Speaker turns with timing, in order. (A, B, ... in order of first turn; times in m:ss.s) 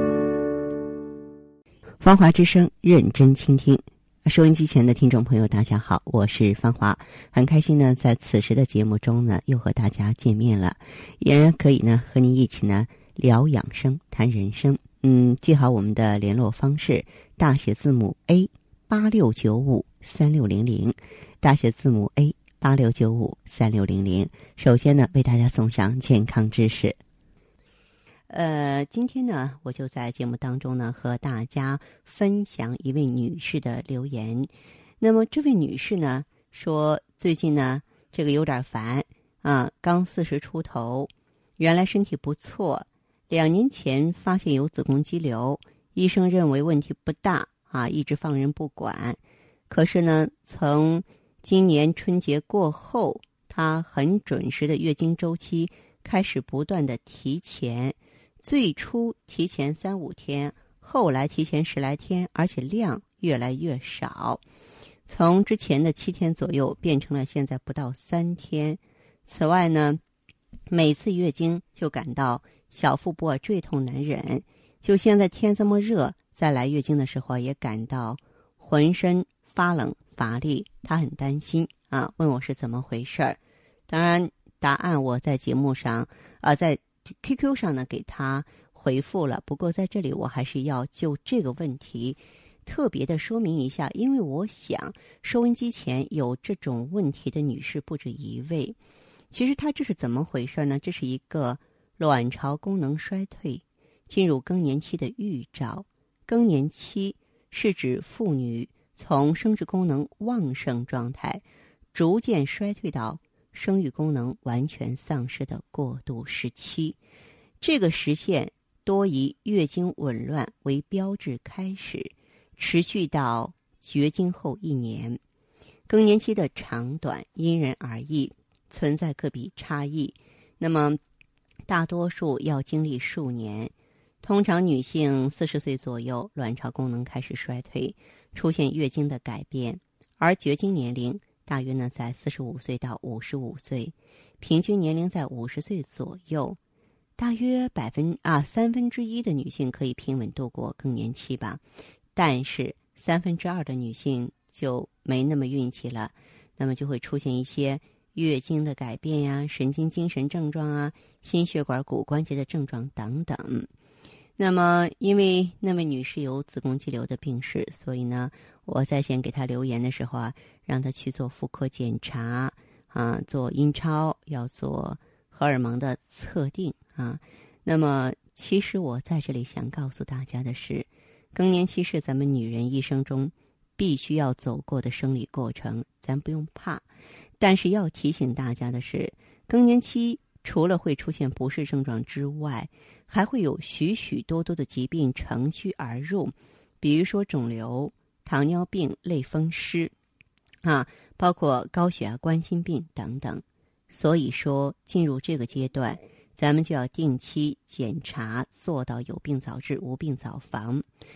0:02.0-0:27.0 A
0:28.3-1:04.4 A
1:05.1-1:10.0 A
1:10.7-1:23.4 A
1:23.9-1:38.8 A
1:39.3-1:57.0 A
1:57.6-2:05.2 A
2:05.9-2:11.0 A
2:11.7-2:13.7 A
2:14.2-2:26.6 A
2:27.2-2:31.6 A
2:32.2-2:43.7 A
2:44.4-3:06.9 A
3:07.4-3:19.9 A
3:20.6-3:30.8 A